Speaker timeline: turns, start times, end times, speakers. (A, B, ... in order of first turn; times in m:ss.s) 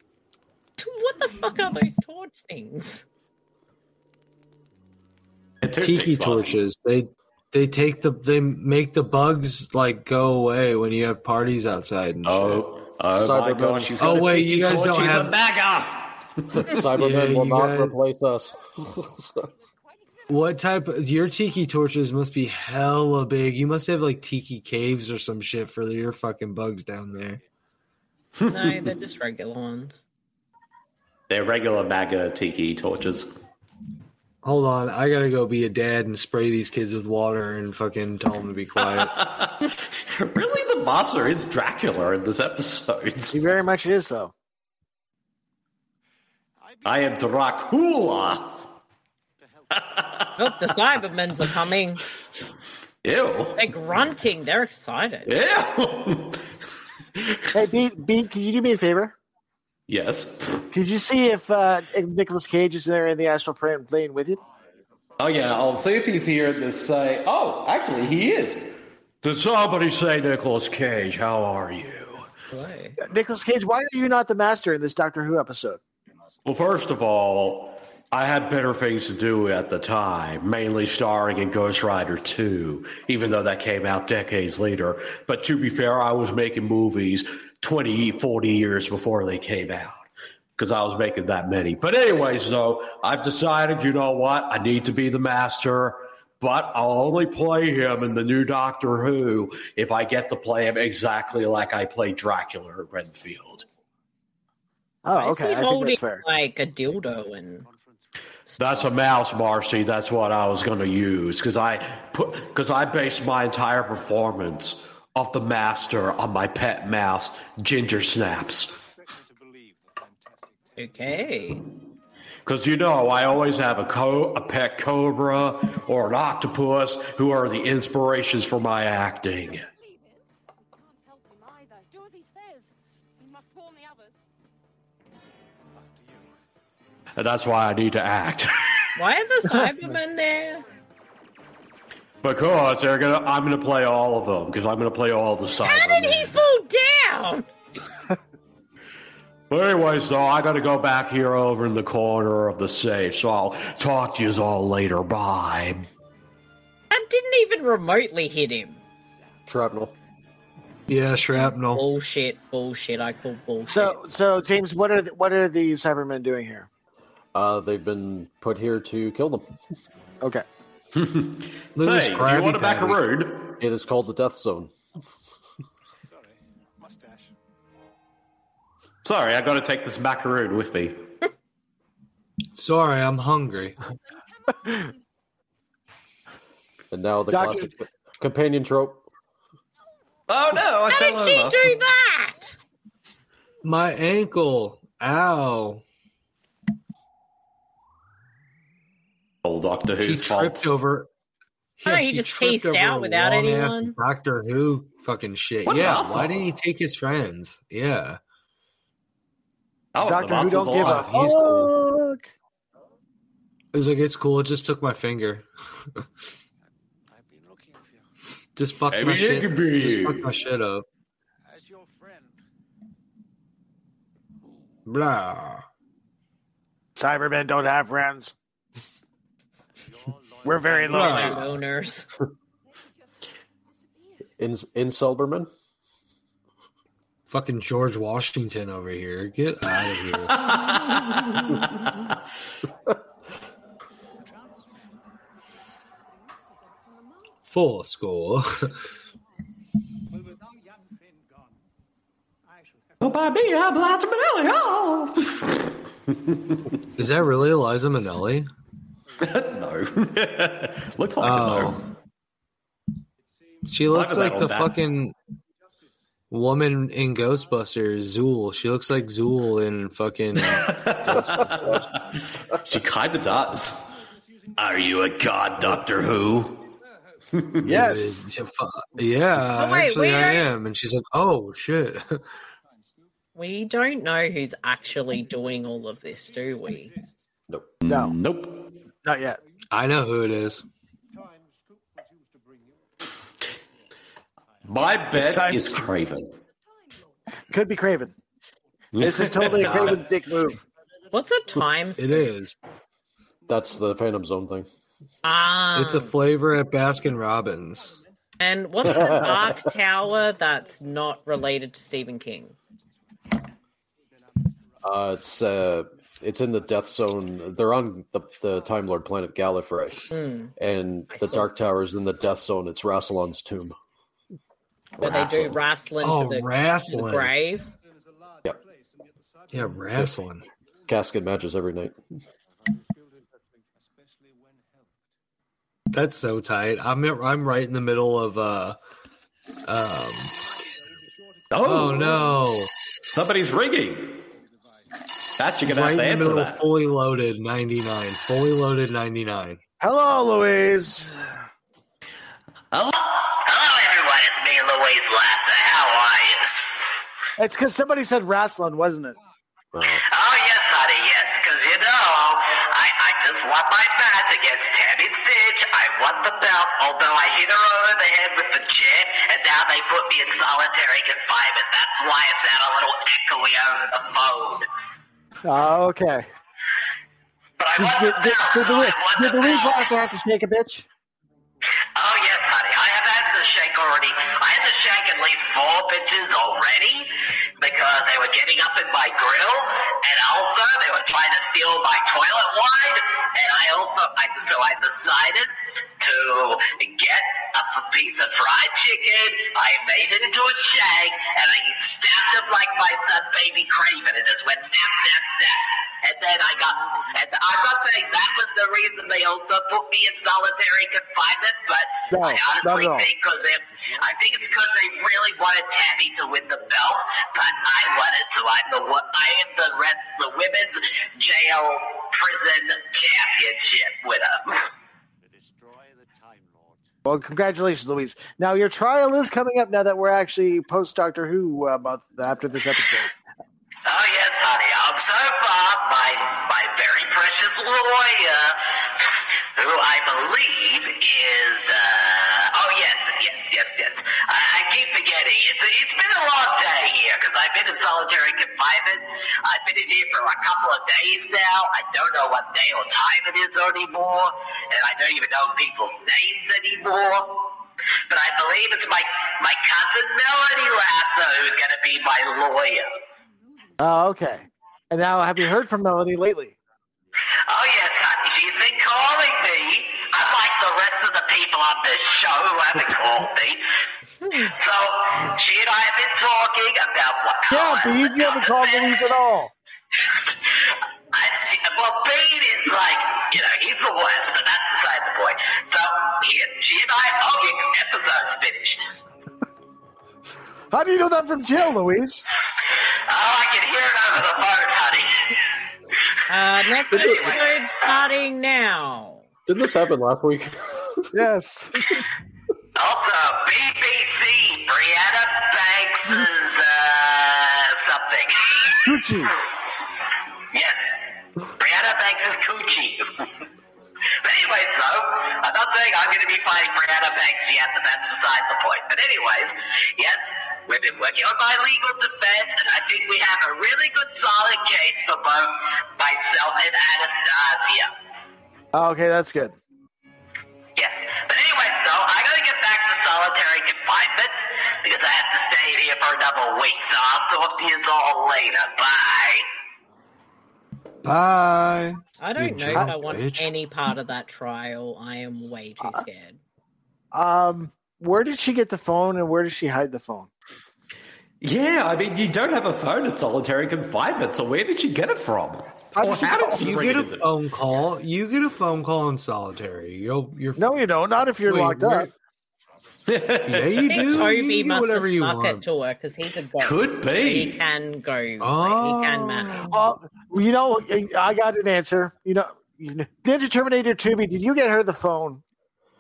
0:00.8-0:03.0 A
0:05.6-0:06.6 B
0:05.8-0:12.6 C
0:12.2-0:16.5 B
0:13.1-0:14.3 D
0:14.0-0:15.4 C
0:16.5-0:19.5 D
0:16.9-0:18.0 C
0:19.4-0:21.8 E
0:20.3-0:27.4 C
0:28.5-0:30.0 A
0:31.3-0:33.3 B
0:34.4-0:39.1 C
0:38.8-0:43.4 B
0:43.3-0:44.3 F
0:46.8-0:48.7 B
0:49.7-0:50.3 B
0:50.4-0:52.0 A
0:53.0-0:53.6 B
0:53.6-0:55.3 A
0:55.2-0:56.4 B
0:57.2-0:57.4 B
0:57.5-0:59.1 F
0:59.9-1:00.7 B
1:00.7-1:04.4 F
1:05.2-1:12.3 B
1:12.5-1:13.0 A
1:13.0-1:15.8 F
1:16.4-1:30.0 B
1:30.6-1:43.6 B
1:45.0-1:46.2 F
1:45.2-1:47.6 A
1:48.6-1:58.8 B
2:00.8-2:01.6 A
2:02.4-2:09.6 B
2:09.5-2:14.2 E
2:17.2-2:18.6 B
2:19.0-2:20.6 A
2:22.2-2:26.4 B
2:25.6-2:27.4 A
2:29.5-2:35.8 B
2:36.9-2:38.8 A
2:39.5-2:39.9 D
2:40.9-2:41.8 C
2:41.4-2:44.0 A
2:43.7-2:46.7 F
2:47.3-2:49.5 D
2:50.9-2:53.6 B
2:51.8-2:53.0 C
2:53.6-2:54.7 D
2:59.0-3:01.0 B
3:02.5-3:03.8 C
3:04.5-3:04.9 E
3:06.9-3:09.0 D
3:07.3-3:07.7 F
3:10.3-3:11.7 B
3:10.9-3:12.6 A
3:13.6-3:15.8 C
3:19.4-3:20.6 B
3:20.0-3:21.1 C
3:21.8-3:28.2 C
3:21.8-3:23.9 A
3:25.6-3:26.4 B
3:29.9-3:31.1 B
3:30.0-3:32.3 F
3:30.8-3:31.7 C
3:33.7-3:36.0 C
3:38.6-3:40.9 C
3:38.9-3:40.3 B
3:44.9-3:45.6 C
3:47.0-3:48.3 F
3:50.4-3:51.4 F
3:50.8-3:52.1 A
3:50.9-3:51.5 C
3:53.8-3:54.2 E
3:54.4-3:55.5 D
3:57.3-4:00.4 C
4:00.3-4:01.6 B
4:07.5-4:08.7 C
4:13.0-4:16.6 B
4:17.0-4:18.5 C
4:19.2-4:21.8 B
4:21.2-4:21.8 C
4:23.6-4:25.1 C
4:23.9-4:24.8 B
4:26.3-4:30.7 C
4:30.4-4:31.8 B
4:31.1-4:31.8 D
4:32.6-4:33.8 B
4:34.6-4:36.7 B
4:37.6-4:42.2 C
4:37.6-4:38.2 F
4:39.6-4:40.4 A
4:43.4-4:46.9 A
4:47.8-4:48.7 B
4:47.9-4:48.1 F
4:49.0-4:49.4 F
4:49.7-4:50.6 C
4:54.6-4:56.3 B
4:55.1-4:55.9 F
4:57.5-4:58.1 F
4:58.9-5:00.0 B
4:59.0-5:00.6 F
4:59.5-5:00.0 C
5:01.1-5:02.3 A
5:02.0-5:02.6 C
5:03.5-5:04.7 D
5:05.2-5:06.1 A
5:05.7-5:07.9 C
5:08.4-5:12.6 A
5:08.8-5:09.5 D
5:14.8-5:20.0 D
5:20.1-5:20.5 A
5:20.6-5:23.8 D
5:21.1-5:21.5 A
5:25.0-5:25.6 D
5:25.0-5:27.7 A
5:26.0-5:27.3 C
5:29.5-5:30.4 C
5:30.9-5:32.0 D
5:35.9-5:38.8 C
5:39.6-5:40.4 C
5:41.5-5:42.3 B
5:41.6-5:42.7 C
5:43.1-5:44.2 B
5:45.4-5:46.6 B
5:45.6-5:49.6 C
5:49.8-5:51.1 F
5:52.7-5:53.0 B
5:53.2-5:56.8 G
5:57.4-5:59.2 F
5:59.7-6:00.0 D
5:59.9-6:14.7 G
6:15.4-6:16.2 F
6:17.6-6:20.0 G
6:17.8-6:20.8 F
6:21.9-7:04.6 G
6:52.1-6:53.1 F
7:07.0-7:13.1 F
7:13.9-7:37.5 G
7:38.1-7:42.9 G
7:43.8-7:46.6 F
7:47.5-7:53.6 G
7:54.2-7:54.5 A
7:54.4-7:59.1 G
7:57.5-7:59.5 F
7:59.9-8:08.9 G
8:10.7-8:12.2 F
8:13.1-8:15.3 G
8:16.3-8:19.2 A
8:16.9-8:17.6 G
8:16.9-8:17.3 D
8:19.5-8:21.0 D
8:21.1-8:21.9 F
8:22.8-8:28.8 G
8:28.8-8:29.3 F
8:30.5-8:31.0 G
8:31.6-8:33.1 G
8:34.2-8:47.9 G
8:48.7-8:49.6 F
8:50.8-8:59.5 G
9:01.0-9:03.5 C
9:02.2-9:06.4 A
9:07.1-9:10.3 F
9:11.4-9:17.3 B
9:15.9-9:17.0 F
9:16.5-9:20.8 C
9:20.6-9:22.1 F
9:21.4-9:22.1 C
9:23.1-9:24.3 B
9:23.4-9:25.6 C
9:23.8-9:29.7 A
9:26.6-9:27.6 B
9:28.4-9:29.8 C
9:29.6-9:35.4 F